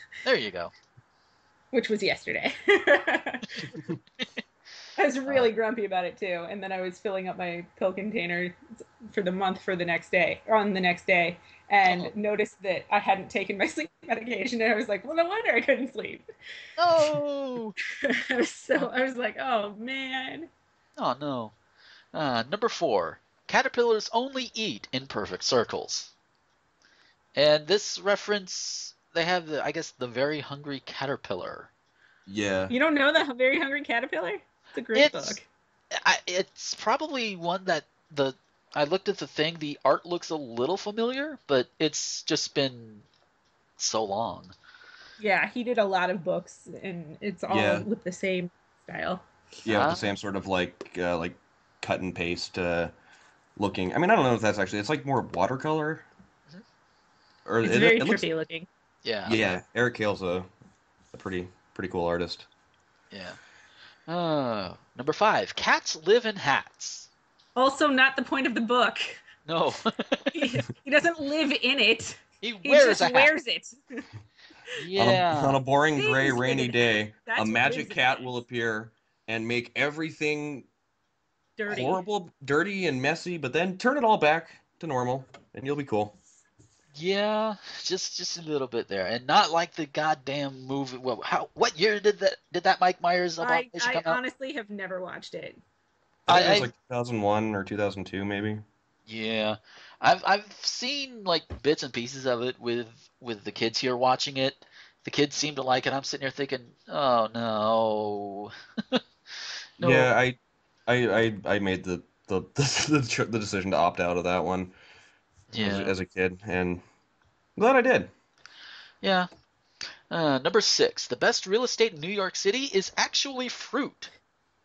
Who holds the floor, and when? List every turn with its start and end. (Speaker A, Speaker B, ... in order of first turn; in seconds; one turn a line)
Speaker A: 0.2-0.7
Speaker B: 1.7-3.7
Speaker B: 5.0-16.2
Speaker A: 11.8-12.1
Speaker A: 16.8-17.8
Speaker B: 18.0-20.5
Speaker A: 21.0-21.5
Speaker A: 22.1-26.1
Speaker A: 27.4-31.7
Speaker C: 32.3-32.7
Speaker B: 32.7-35.4
Speaker A: 34.9-35.4
Speaker A: 35.9-43.0
Speaker A: 43.8-44.5
Speaker B: 45.2-49.2
Speaker C: 47.5-47.9
Speaker A: 49.6-50.0
Speaker C: 49.6-52.9
Speaker C: 53.6-56.1
Speaker C: 57.4-58.2
Speaker B: 57.6-58.7
Speaker A: 59.0-59.4
Speaker C: 59.2-60.5
Speaker C: 61.1-62.5
Speaker A: 63.1-63.4
Speaker A: 64.1-67.1
Speaker B: 67.5-69.2
Speaker A: 69.4-70.3
Speaker B: 70.3-74.0
Speaker A: 72.4-73.3
Speaker A: 74.8-75.6
Speaker C: 75.0-80.7
Speaker B: 76.0-78.3
Speaker B: 81.6-82.0
Speaker C: 81.7-86.2
Speaker A: 86.9-94.2
Speaker B: 93.4-95.6
Speaker C: 96.3-98.6
Speaker A: 96.3-96.7
Speaker A: 99.1-110.1
Speaker C: 109.8-114.7
Speaker A: 115.5-115.9
Speaker C: 115.6-116.8
Speaker C: 117.5-118.1
Speaker A: 119.0-119.3
Speaker A: 120.1-124.1